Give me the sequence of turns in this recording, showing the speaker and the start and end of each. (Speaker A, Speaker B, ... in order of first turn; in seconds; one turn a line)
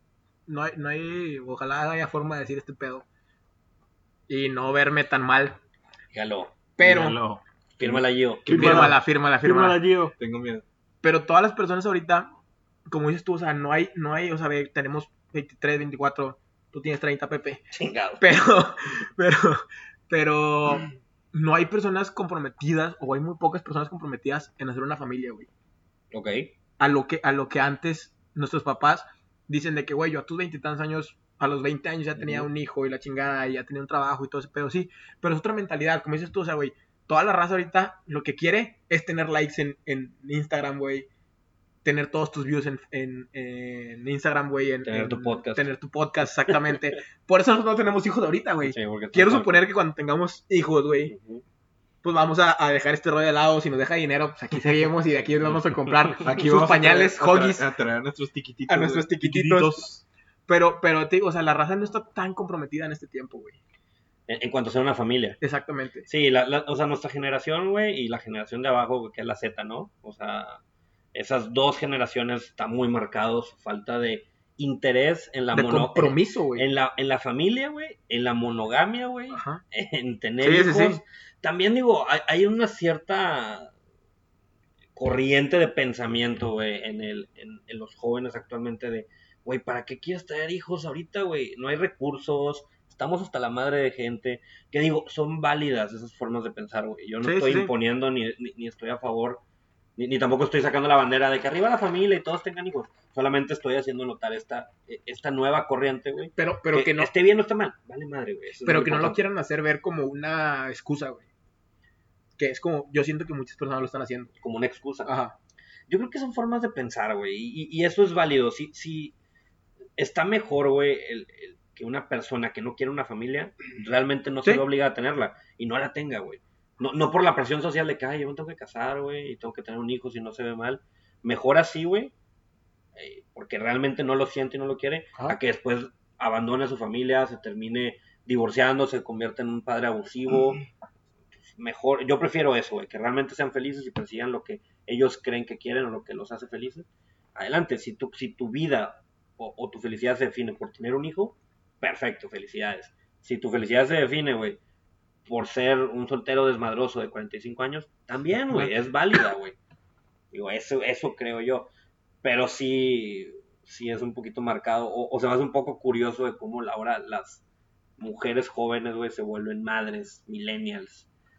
Speaker A: 0.5-3.0
Speaker A: 4.3-5.6
Speaker B: 6.1-6.5
Speaker A: 6.8-7.2
Speaker C: 6.8-10.2
Speaker B: 7.8-8.9
Speaker A: 8.5-9.8
Speaker D: 10.2-10.6
Speaker A: 11.0-12.3
Speaker A: 12.9-17.6
Speaker B: 17.7-18.2
Speaker A: 18.2-25.5
Speaker B: 26.1-26.5
Speaker A: 26.8-41.1
Speaker B: 32.2-32.5
Speaker A: 41.8-51.1
Speaker B: 44.9-45.7
Speaker B: 48.6-49.6
Speaker B: 51.1-51.4
Speaker A: 52.0-57.6
Speaker D: 56.2-59.1
Speaker A: 58.7-59.9
Speaker C: 59.2-60.0
Speaker A: 60.5-63.6
Speaker B: 64.3-65.4
Speaker A: 65.4-66.1
Speaker B: 66.1-70.6
Speaker B: 71.1-83.7
Speaker A: 75.5-76.7
Speaker A: 79.3-79.6
Speaker A: 80.4-81.0
Speaker B: 85.0-99.4
Speaker A: 97.2-97.7
Speaker B: 100.0-109.2
Speaker A: 106.4-107.1
Speaker A: 108.6-111.2
Speaker A: 112.4-114.3
Speaker B: 114.4-115.1
Speaker A: 115.0-115.3
Speaker B: 115.9-119.1
Speaker B: 120.0-132.1
Speaker B: 132.9-140.6
Speaker B: 141.4-154.6
Speaker B: 155.3-159.6
Speaker A: 158.5-158.8
Speaker B: 160.3-161.7
Speaker B: 162.2-167.4
Speaker B: 168.0-171.1